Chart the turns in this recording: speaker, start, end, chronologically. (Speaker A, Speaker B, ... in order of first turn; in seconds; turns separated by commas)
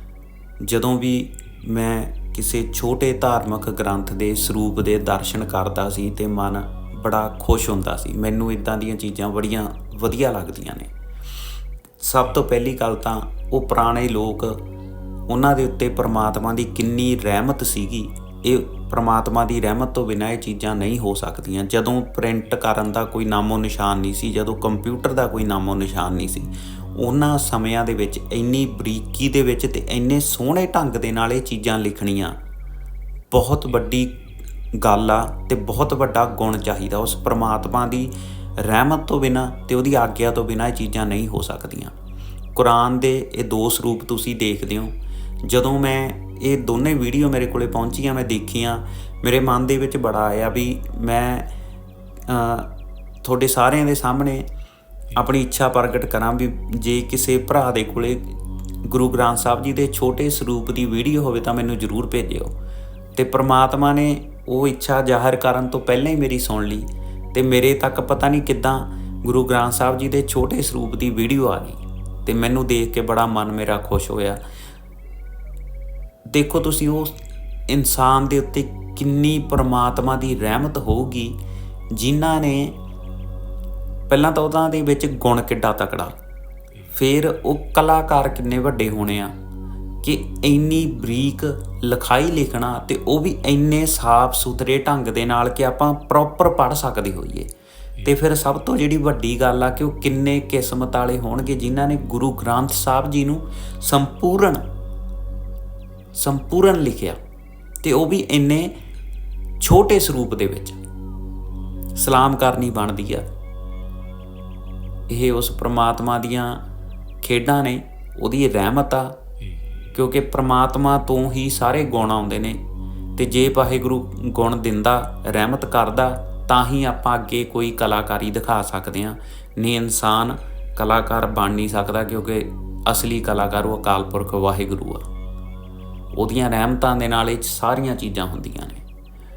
Speaker A: 0.6-10.9, Speaker A: 12.0-14.6, Speaker A: 15.3-32.4, Speaker A: 33.3-34.2, Speaker A: 34.7-41.9, Speaker A: 42.5-44.9, Speaker A: 45.5-51.5, Speaker A: 52.3-52.7, Speaker A: 53.2-54.5, Speaker A: 55.1-58.3, Speaker A: 58.9-62.5, Speaker A: 63.1-74.4, Speaker A: 76.3-77.2, Speaker A: 77.7-81.4, Speaker A: 81.9-82.8, Speaker A: 84.1-86.2, Speaker A: 86.9-89.3, Speaker A: 90.0-97.5, Speaker A: 98.0-104.6, Speaker A: 106.1-107.2, Speaker A: 107.8-108.7, Speaker A: 109.6-110.8, Speaker A: 112.0-113.3, Speaker A: 115.1-116.6, Speaker A: 117.2-119.2, Speaker A: 119.9-122.6, Speaker A: 123.2-135.1, Speaker A: 136.1-138.8